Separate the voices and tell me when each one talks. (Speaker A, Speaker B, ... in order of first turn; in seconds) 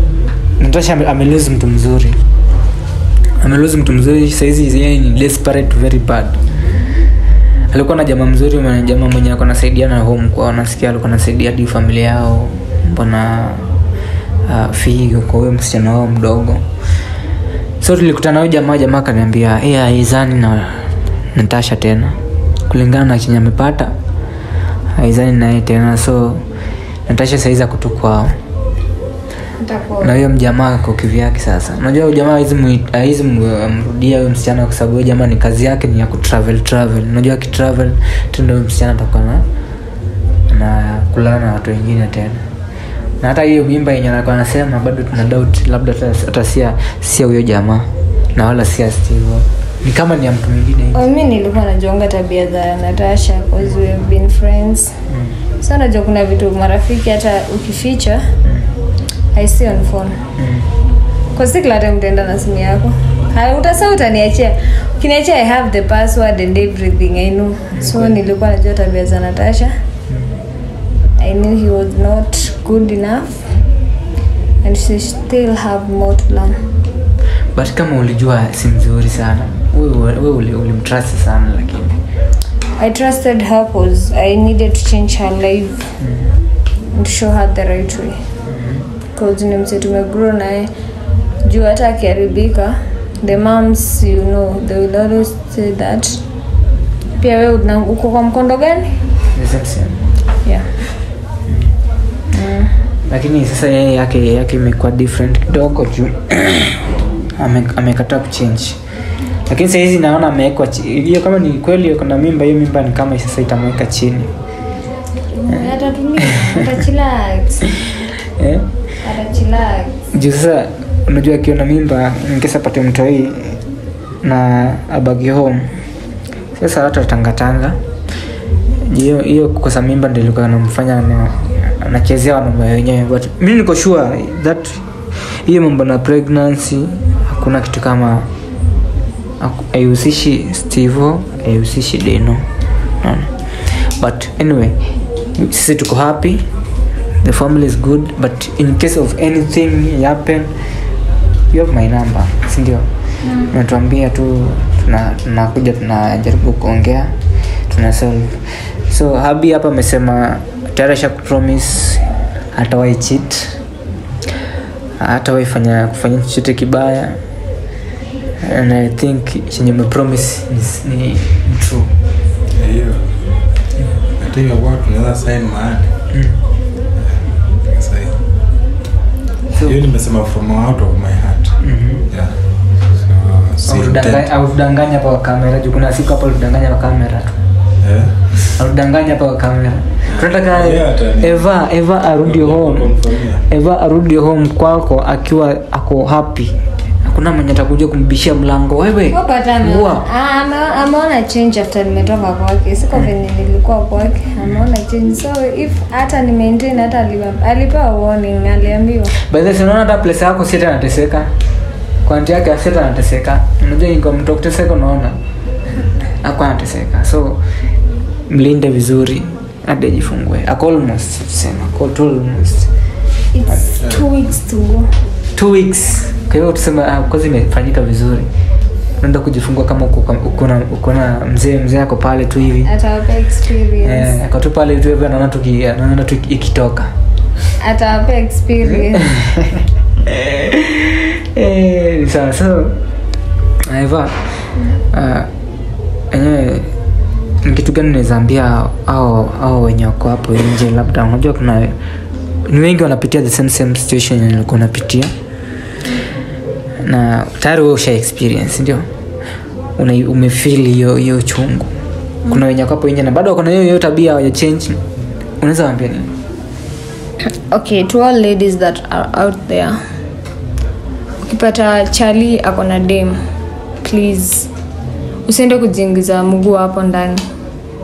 Speaker A: 0.6-2.2, 3.4-6.4, 7.7-13.7, 14.4-16.6, 17.8-22.2, 22.7-23.9, 24.9-26.4, 27.1-28.4, 30.0-39.4, 40.5-42.4, 43.2-51.0, 55.1-55.4, 58.4-58.7, 60.4-60.7, 67.7-68.2, 77.5-82.0, 86.0-86.3, 88.5-88.8, 99.3-100.0, 103.1-106.8, 107.4-108.8, 109.5-114.3, 118.4-118.7, 120.1-123.6, 124.2-125.8, 126.6-127.8, 128.8-138.3, 139.4-142.4, 143.0-144.8, 145.4-146.4, 147.2-150.5, 151.5-152.9, 153.5-157.1, 157.7-162.0, 162.5-163.6, 165.0-167.2, 168.4-171.9, 181.6-182.1, 183.7-187.4, 188.5-192.9, 193.5-200.0, 209.2-211.3, 212.1-215.2, 216.2-217.4, 218.3-222.7, 225.3-228.3, 229.0-232.7, 233.8-236.9, 239.0-242.8, 243.7-244.2, 244.9-245.3, 246.1-246.7, 247.4-251.8, 252.5-255.1, 256.8-258.9, 259.8-261.7, 262.3-264.8, 265.4-266.1
Speaker B: 29.6-30.1, 50.9-55.0, 55.6-58.2, 59.4-60.2, 61.4-69.8, 71.2-73.5, 74.6-76.6, 82.8-85.9, 86.9-88.2, 89.2-90.7, 91.5-96.2, 97.2-98.9, 102.3-102.7, 115.3-117.6, 119.0-119.9, 153.2-153.5, 199.1-209.1, 223.3-224.9, 232.7-234.2, 237.6-239.0, 267.5-269.8, 271.2-273.2, 273.8-274.5, 275.3-277.2
Speaker C: 172.5-173.2, 174.2-175.9, 177.0-178.2, 179.6-181.6, 182.1-182.4, 182.9-184.3, 187.8-188.2, 190.1-191.5, 192.2-193.4